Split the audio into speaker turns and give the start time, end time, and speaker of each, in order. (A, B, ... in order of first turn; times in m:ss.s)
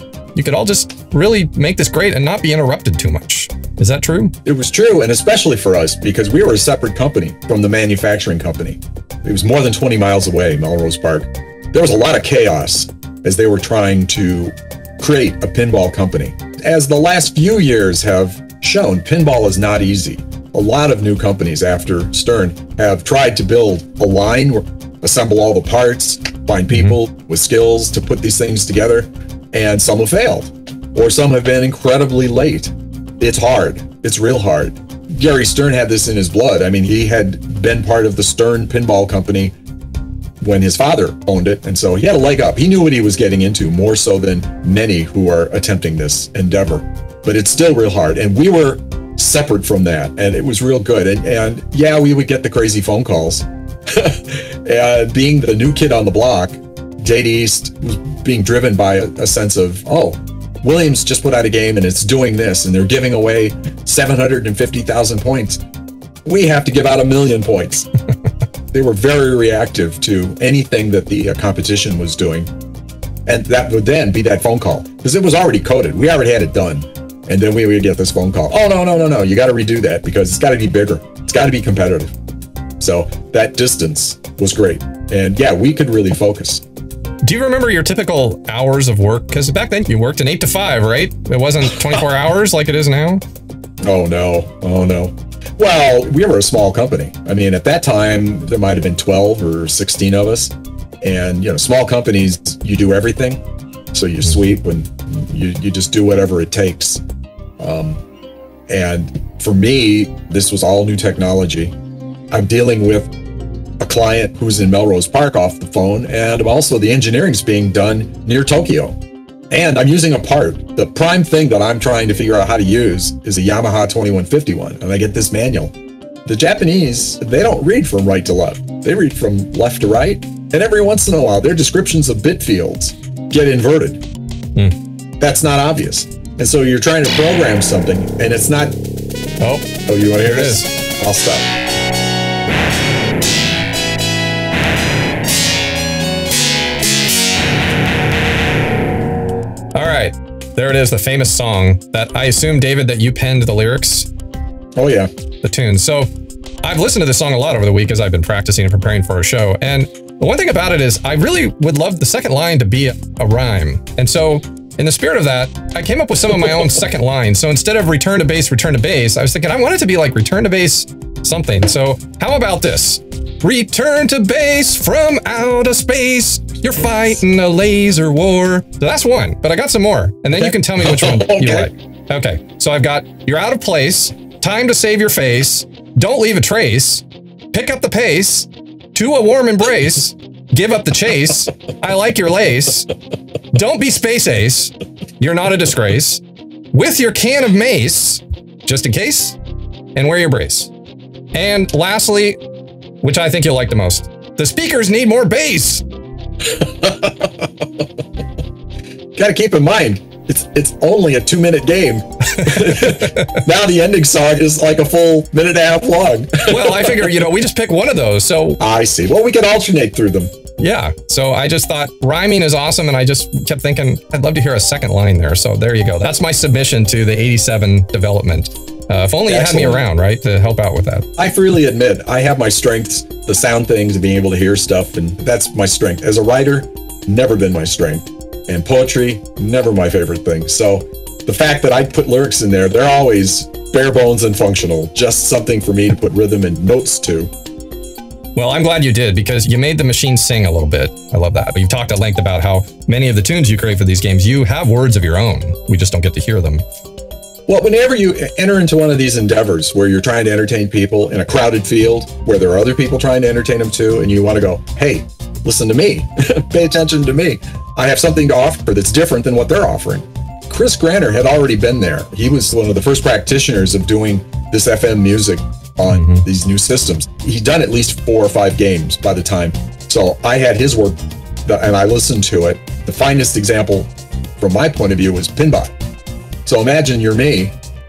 0:00.3-0:04.3 A
0:04.4-0:39.5 B
0:26.7-0:27.0 A
0:40.4-1:05.6 B
1:06.2-1:07.9 B
1:08.7-1:12.5 B
1:13.2-1:22.1 B
1:22.8-1:26.6 B
1:27.2-1:33.2 A
1:33.8-1:43.4 B
1:43.9-1:47.0 B
1:47.6-1:48.0 B
1:48.7-1:51.7 B
1:52.3-1:53.1 B
1:53.8-1:59.0 B
1:59.5-2:05.7 B
2:06.2-2:14.0 B
2:15.2-2:18.8 B
2:19.4-2:19.7 A
2:19.8-2:21.5 B
2:20.2-2:20.7 A
2:29.7-2:34.1 A
2:34.8-2:35.1 B
2:35.4-2:36.1 A
2:36.6-3:12.9 A
3:00.3-3:01.7 B
3:13.5-3:16.2 A
3:16.7-3:19.4 A
3:19.9-3:20.7 A
3:21.3-3:22.4 A
3:23.0-3:25.8 A
3:26.4-3:27.6 B
3:29.1-3:37.1 B
3:32.4-3:33.4 A
3:36.4-3:38.6 A
3:38.6-3:40.3 B
3:40.6-3:51.1 A
3:49.3-3:49.8 B
3:51.2-4:07.3 B
4:08.3-4:16.6 A
4:17.5-4:45.7 B
4:35.9-4:36.2 A
4:46.4-4:47.6 B